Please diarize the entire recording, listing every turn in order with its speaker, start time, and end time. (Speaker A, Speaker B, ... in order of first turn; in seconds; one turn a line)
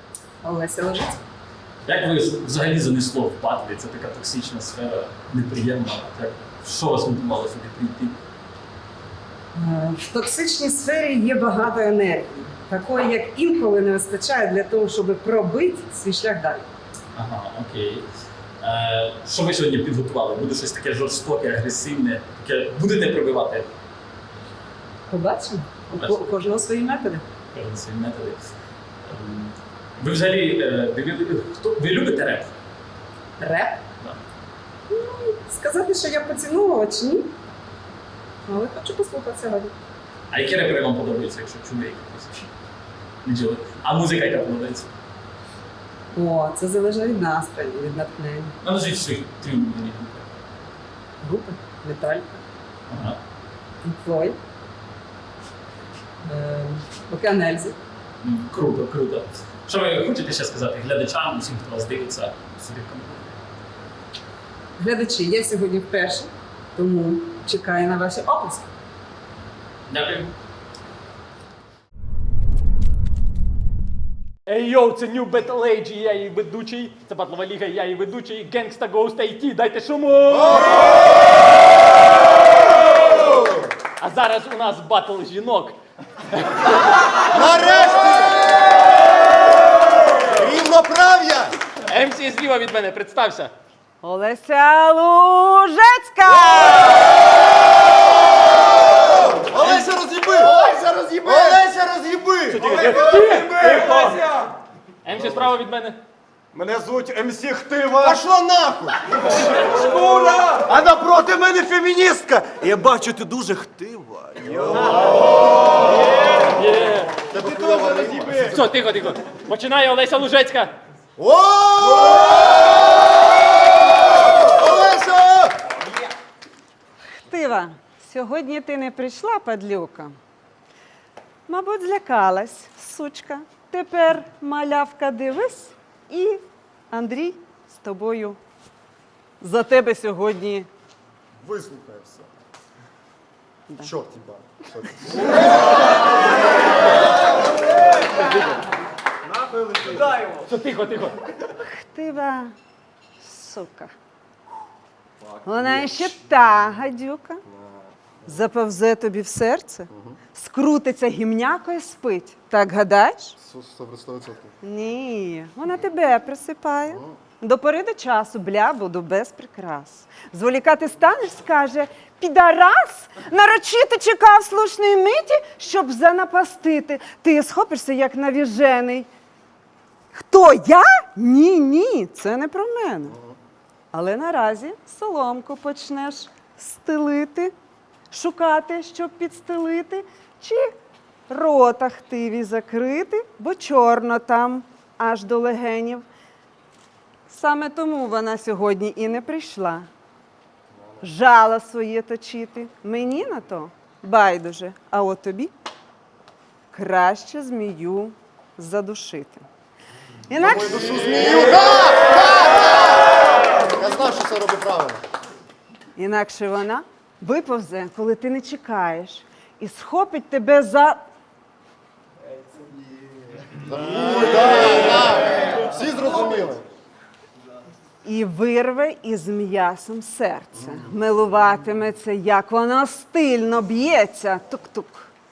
Speaker A: 0.4-1.2
Speaker B: 1.9-8.2
Speaker A: 9.6-16.7
Speaker B: 17.1-18.1
Speaker B: 18.6-23.7
Speaker A: 25.1-27.2
Speaker B: 27.5-28.5
Speaker B: 29.1-32.5
Speaker A: 33.4-33.8
Speaker A: 34.9-37.3
Speaker A: 38.5-39.7
Speaker B: 40.3-42.4
Speaker B: 43.2-44.9
Speaker A: 46.1-48.5
Speaker B: 48.6-50.2
Speaker A: 51.2-52.4
Speaker B: 52.9-53.2
Speaker A: 53.8-54.4
Speaker A: 56.2-57.8
Speaker B: 58.2-63.3
Speaker C: 62.4-62.7
Speaker A: 64.8-68.7
Speaker C: 69.9-70.3
Speaker C: 74.5-80.9
Speaker C: 84.0-85.8
Speaker D: 87.3-88.5
Speaker D: 90.3-91.6
Speaker C: 91.9-93.5
Speaker E: 94.0-97.1
Speaker D: 99.2-103.0
Speaker F: 100.6-101.6
Speaker C: 102.5-104.3
Speaker F: 102.6-104.2
Speaker C: 105.0-106.0
Speaker F: 106.5-108.2
Speaker D: 108.0-109.0
Speaker F: 109.3-115.1
Speaker C: 116.5-117.2
Speaker D: 117.2-118.6
Speaker F: 117.6-118.5
Speaker C: 118.5-120.7
Speaker D: 121.2-122.4
Speaker D: 124.4-125.5
Speaker E: 127.2-130.2
Speaker E: 131.5-138.4
Speaker E: 139.4-140.7
Speaker D: 141.4-142.3
Speaker D: 143.8-145.4
Speaker C: 148.2-148.6
Speaker C: 150.0-151.2
Speaker E: 151.5-152.5
Speaker E: 153.2-153.9
Speaker E: 155.5-157.4
Speaker D: 155.6-156.1
Speaker D: 157.5-157.9
Speaker E: 158.3-163.4
Speaker D: 159.9-160.2
Speaker D: 163.4-164.5
Speaker E: 164.6-179.1
Speaker E: 180.1-183.2
Speaker E: 183.9-187.5
Speaker E: 188.1-190.7
Speaker E: 191.3-196.1
Speaker E: 197.3-199.9
Speaker E: 201.0-205.5
Speaker E: 206.7-209.4
Speaker E: 210.3-211.3
Speaker D: 210.3-215.0
Speaker E: 216.0-221.1
Speaker D: 223.5-226.7
Speaker E: 228.0-235.1